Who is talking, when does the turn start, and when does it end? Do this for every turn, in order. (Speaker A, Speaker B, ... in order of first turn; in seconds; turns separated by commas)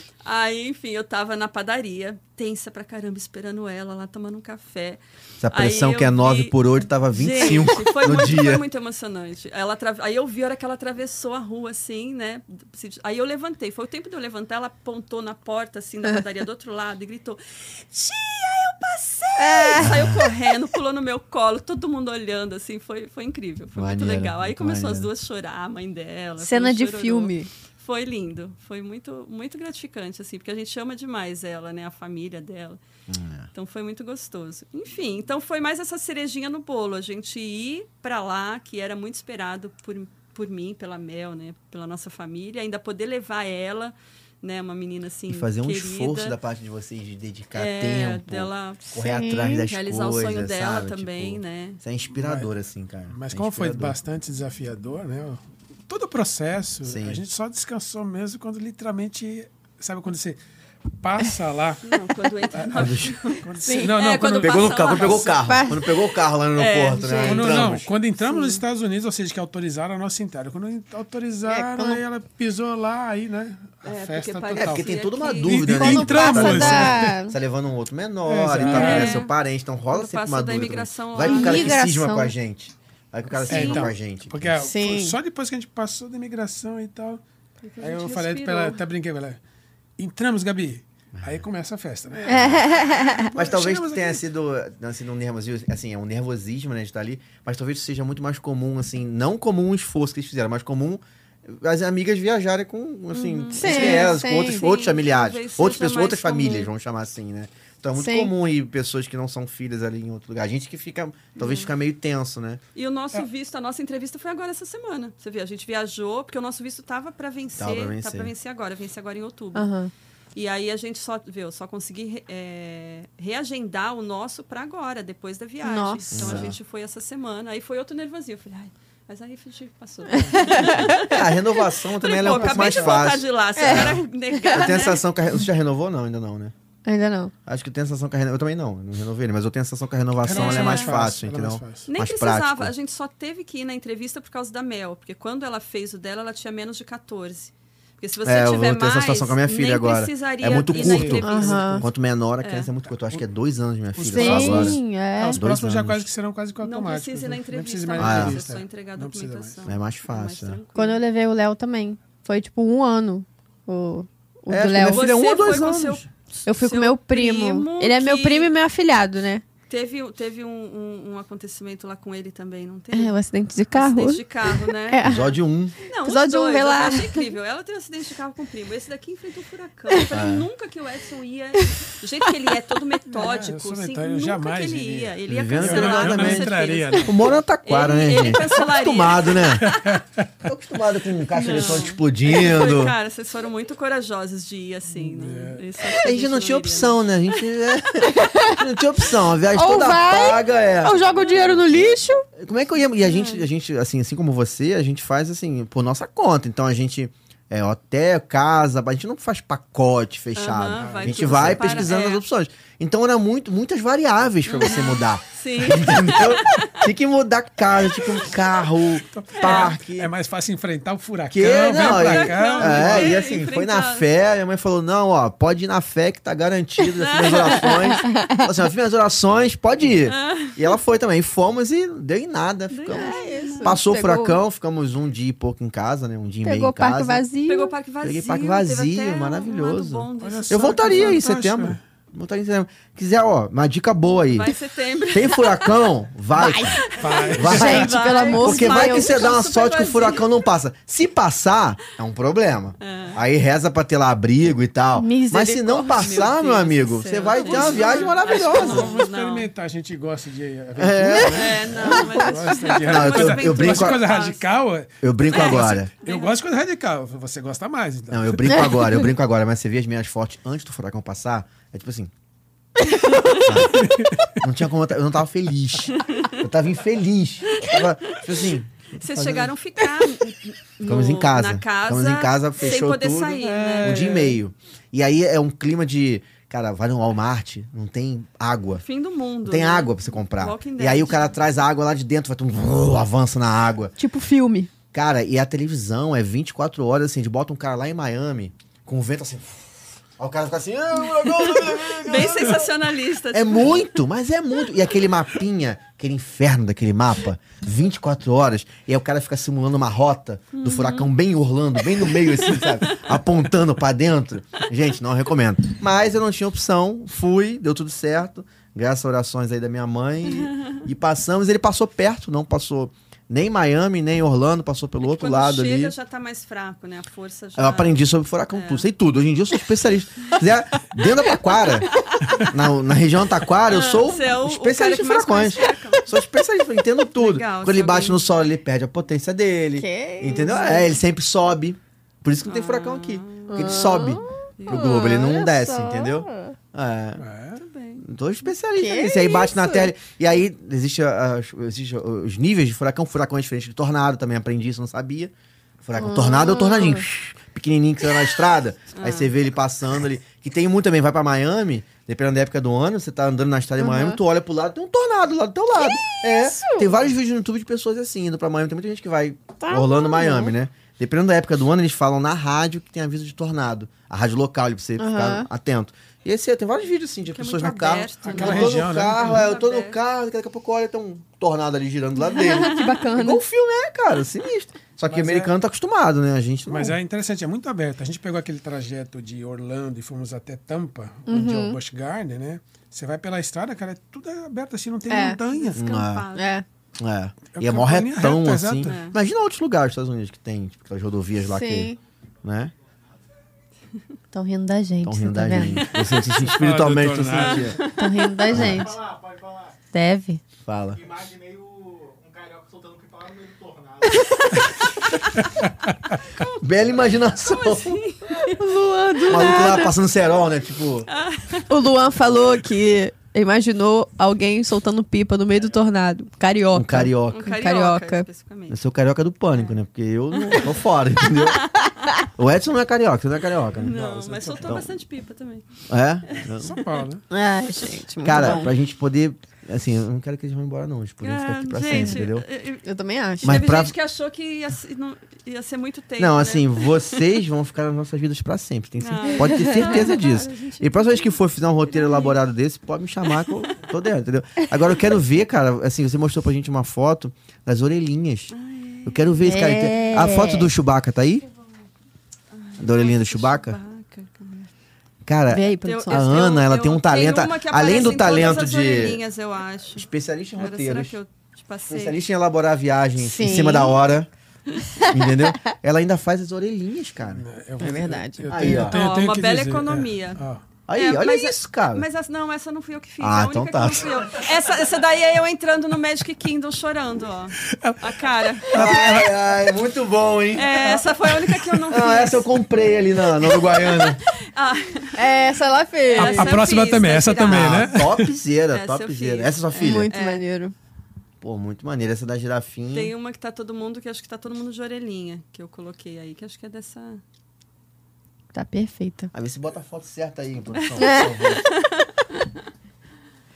Speaker A: 0.2-6.5, Speaker B: 5.4-8.6, Speaker A: 7.1-32.8, Speaker C: 19.4-20.3, Speaker B: 19.8-20.3, Speaker B: 23.8-25.1, Speaker C: 26.4-27.5, Speaker B: 33.1-33.5, Speaker A: 33.5-46.4, Speaker B: 45.3-54.0, Speaker A: 47.5-49.0, Speaker C: 49.0-49.7, Speaker A: 49.7-51.8, Speaker D: 52.1-52.5, Speaker D: 53.1-60.4, Speaker B: 56.8-57.2, Speaker D: 60.9-61.8, Speaker A: 61.8-65.4, Speaker D: 62.5-65.4, Speaker B: 62.7-63.2, Speaker C: 63.6-63.9, Speaker B: 64.4-67.9, Speaker C: 65.4-65.9, Speaker A: 66.5-68.6, Speaker C: 67.0-67.3, Speaker D: 67.2-77.1, Speaker C: 71.5-72.0, Speaker A: 73.8-75.7, Speaker B: 74.6-84.6, Speaker C: 75.7-77.3, Speaker D: 78.2-79.2, Speaker A: 78.6-79.3, Speaker A: 79.9-81.8, Speaker C: 81.2-82.3, Speaker A: 83.3-83.9, Speaker D: 83.5-87.2, Speaker C: 84.6-85.2, Speaker A: 87.6-88.8, Speaker D: 87.8-89.4, Speaker D: 90.0-94.2, Speaker B: 91.1-91.4, Speaker C: 92.3-93.3, Speaker B: 93.3-112.6, Speaker A: 103.1-106.7, Speaker C: 103.6-104.6, Speaker C: 108.0-108.3, Speaker A: 111.4-111.7, Speaker A: 112.7-119.7, Speaker B: 117.6-118.3, Speaker C: 119.5-119.9, Speaker A: 120.3-135.0, Speaker C: 125.6-126.4, Speaker B: 126.1-126.6, Speaker C: 130.1-131.0, Speaker D: 130.2-130.4, Speaker B: 130.6-136.5, Speaker D: 132.3-133.0, Speaker C: 133.6-134.5, Speaker C: 136.8-137.3, Speaker B: 137.4-142.7, Speaker D: 140.2-141.9, Speaker A: 140.3-141.0, Speaker A: 141.9-151.8, Speaker B: 148.2-154.8, Speaker D: 150.6-151.9, Speaker C: 151.2-151.8, Speaker A: 152.4-152.7, Speaker D: 152.9-153.2, Speaker D: 153.9-159.7, Speaker C: 154.1-155.4, Speaker B: 155.3-156.1, Speaker A: 156.6-161.0, Speaker B: 157.9-158.5, Speaker B: 159.7-160.6, Speaker C: 160.7-165.1, Speaker B: 164.5-166.0, Speaker A: 164.8-168.5, Speaker C: 166.4-169.4, Speaker A: 169.7-173.1, Speaker C: 172.9-175.3, Speaker A: 173.7-175.1, Speaker B: 175.0-175.8, Speaker A: 175.8-190.0, Speaker C: 176.0-177.2, Speaker B: 180.1-180.5, Speaker D: 183.1-187.2, Speaker B: 185.3-189.8, Speaker D: 189.6-190.3, Speaker B: 190.4-192.9, Speaker A: 191.3-197.4, Speaker D: 191.5-191.8, Speaker D: 194.9-195.6, Speaker B: 195.9-220.1, Speaker C: 198.1-198.6, Speaker C: 199.5-202.2, Speaker A: 201.2-201.5, Speaker A: 203.0-203.4, Speaker A: 210.3-212.2, Speaker D: 210.8-211.9, Speaker A: 214.5-216.8, Speaker D: 219.1-223.4, Speaker A: 219.4-219.8, Speaker B: 221.3-237.2, Speaker A: 221.5-224.1, Speaker A: 226.9-227.9, Speaker C: 227.6-228.5, Speaker A: 230.0-230.7, Speaker A: 232.7-233.7, Speaker C: 232.9-234.4, Speaker C: 236.4-237.7, Speaker A: 237.4-241.2, Speaker B: 238.0-244.5, Speaker D: 240.2-241.8, Speaker A: 244.3-245.8, Speaker B: 245.1-246.8, Speaker C: 246.3-246.9, Speaker A: 246.8-250.3, Speaker D: 247.0-247.9, Speaker B: 247.3-259.0, Speaker C: 247.4-249.3, Speaker A: 252.8-253.2, Speaker C: 254.9-256.0, Speaker A: 255.8-259.5, Speaker D: 257.3-268.8, Speaker B: 260.8-262.1, Speaker A: 261.2-264.4, Speaker B: 262.8-264.0, Speaker B: 265.0-265.9, Speaker A: 265.3-266.3, Speaker B: 268.1-272.1, Speaker C: 268.4-268.7, Speaker A: 273.2-273.5, Speaker B: 273.4-279.5, Speaker D: 273.7-274.4, Speaker A: 275.9-276.4, Speaker A: 277.4-278.3, Speaker A: 278.9-284.4, Speaker B: 280.8-288.8, Speaker D: 283.4-284.4, Speaker A: 288.8-291.3, Speaker B: 289.4-293.9, Speaker C: 294.0-294.7, Speaker B: 294.9-302.7, Speaker A: 302.0-303.8, Speaker B: 303.3-325.9, Speaker A: 310.5-311.1, Speaker A: 312.1-313.1, Speaker A: 320.4-320.7, Speaker A: 325.0-328.9, Speaker B: 327.6-347.2, Speaker A: 331.9-332.5, Speaker A: 333.7-336.1, Speaker A: 337.1-338.2, Speaker C: 339.8-340.9, Speaker A: 340.3-340.9, Speaker A: 342.4-343.9, Speaker C: 343.5-346.5, Speaker A: 344.6-345.2, Speaker D: 347.2-347.6, Speaker A: 347.6-348.0, Speaker B: 348.0-355.3, Speaker C: 348.8-349.9, Speaker B: 355.8-387.0, Speaker C: 356.0-357.0, Speaker A: 358.9-359.3, Speaker C: 363.8-364.2, Speaker C: 365.8-366.9, Speaker C: 369.6-370.5, Speaker C: 375.0-375.5, Speaker A: 377.3-380.0, Speaker D: 378.2-379.5, Speaker C: 382.3-383.4, Speaker A: 382.5-383.0, Speaker D: 385.1-385.5, Speaker D: 386.7-395.8, Speaker C: 391.3-391.8, Speaker C: 395.1-395.4, Speaker A: 395.5-396.6, Speaker B: 395.7-396.3, Speaker C: 396.3-396.6, Speaker B: 397.0-401.9, Speaker D: 397.5-399.0, Speaker A: 398.8-399.2, Speaker C: 401.5-402.0, Speaker B: 402.4-402.7, Speaker C: 404.3-405.9, Speaker B: 405.0-407.8, Speaker D: 406.2-407.8, Speaker A: 407.4-408.6, Speaker C: 407.9-409.0, Speaker B: 408.5-408.9, Speaker E: 408.6-409.8, Speaker C: 409.9-410.4, Speaker B: 410.6-411.0, Speaker E: 411.0-414.6, Speaker C: 414.1-414.5, Speaker B: 416.6-418.0, Speaker A: 417.4-418.6, Speaker C: 418.4-419.9, Speaker B: 419.3-421.1, Speaker A: 419.4-419.7, Speaker A: 421.1-421.7, Speaker C: 421.7-428.2, Speaker B: 426.7-427.4, Speaker A: 427.3-428.8, Speaker B: 428.7-431.7, Speaker A: 429.5-429.8, Speaker A: 430.3-430.8, Speaker A: 431.3-432.1, Speaker B: 432.4-433.9, Speaker A: 433.8-435.6, Speaker D: 433.9-434.8, Speaker B: 434.6-434.9, Speaker B: 435.9-436.8, Speaker A: 436.3-437.1, Speaker D: 436.6-437.2, Speaker C: 437.3-438.7, Speaker B: 438.2-442.4, Speaker A: 441.2-442.9, Speaker C: 442.8-443.6, Speaker A: 443.4-447.3, Speaker B: 443.4-443.9, Speaker B: 446.2-458.5, Speaker A: 449.0-452.4, Speaker C: 449.4-450.0, Speaker A: 458.5-459.6, Speaker B: 459.0-461.4, Speaker C: 459.4-460.7, Speaker A: 462.5-464.7, Speaker B: 462.8-463.8, Speaker B: 465.2-469.2, Speaker C: 465.5-466.3, Speaker A: 465.8-470.1, Speaker B: 469.9-471.2, Speaker A: 470.6-472.2, Speaker B: 471.9-474.3, Speaker C: 473.2-474.0, Speaker C: 474.9-475.5, Speaker B: 475.1-477.4, Speaker D: 477.3-480.6, Speaker C: 477.8-478.9, Speaker B: 478.5-479.0, Speaker A: 478.9-480.4, Speaker B: 480.9-482.1, Speaker A: 480.9-489.2, Speaker B: 483.2-484.2, Speaker D: 487.6-489.3, Speaker B: 488.7-491.0, Speaker A: 490.5-492.5, Speaker D: 490.7-491.6, Speaker B: 491.9-494.2, Speaker A: 493.4-495.4, Speaker C: 495.1-496.6, Speaker A: 496.1-497.9, Speaker D: 496.1-498.3, Speaker B: 497.4-500.1, Speaker A: 498.7-500.4, Speaker C: 499.8-500.7, Speaker B: 501.4-503.1, Speaker A: 502.9-507.2, Speaker C: 508.5-509.3, Speaker B: 509.3-511.6, Speaker A: 510.8-512.5, Speaker C: 511.0-511.5